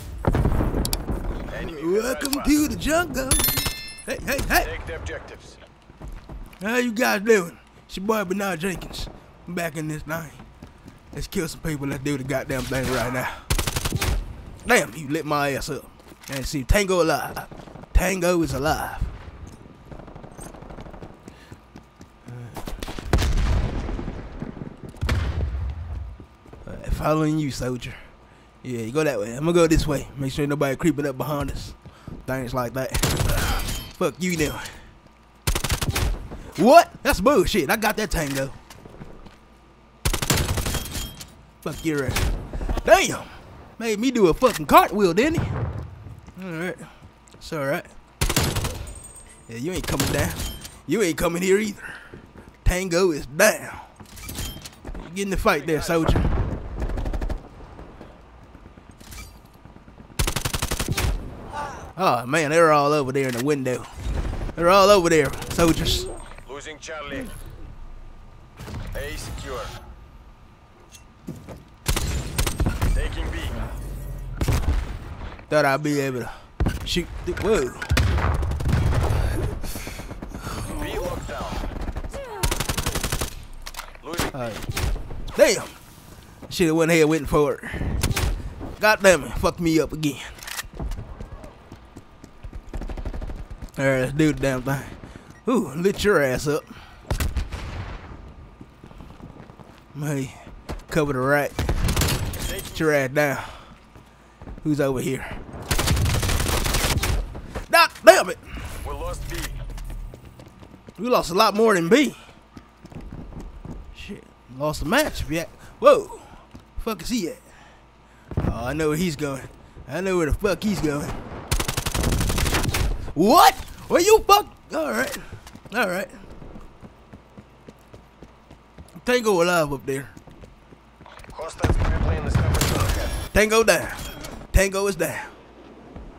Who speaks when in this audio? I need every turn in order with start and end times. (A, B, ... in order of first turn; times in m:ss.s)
0:01.5-0:02.5 A
0:01.6-0:04.7 B
0:04.5-0:05.6 A
0:06.6-0:10.4 B
0:11.1-0:13.5 B
0:14.6-0:19.1 B
0:22.3-0:22.6 B
0:26.6-0:28.1 B
0:28.6-0:34.8 B
0:36.6-0:38.6 B
0:41.6-0:45.5 B
0:46.4-0:47.9 B
0:49.5-0:52.1 B
0:52.6-0:53.9 B
0:54.9-0:56.4 B
0:55.5-0:56.2 A
1:02.0-1:03.9 B
1:04.6-1:06.1 B
1:06.4-1:07.3 A
1:08.9-1:09.7 A
1:12.9-1:13.6 A
1:15.5-1:18.0 B
1:20.7-1:21.6 A
1:24.0-1:24.6 A
1:24.3-1:24.6 B
1:25.3-1:25.7 B
1:26.5-1:28.1 B
1:28.8-1:30.3 B
1:33.8-1:34.9 B
1:35.4-1:36.7 B
1:39.9-1:41.8 B
1:42.3-1:43.0 A
1:42.7-1:43.7 B
1:44.6-1:45.4 B
1:47.7-1:48.6 B
1:48.8-1:49.6 A
1:51.0-1:52.2 B
1:53.9-1:57.4 B
1:58.4-2:01.2 B
2:03.1-2:06.1 B
2:09.0-2:10.2 B
2:11.3-2:13.2 A
2:13.3-2:15.3 B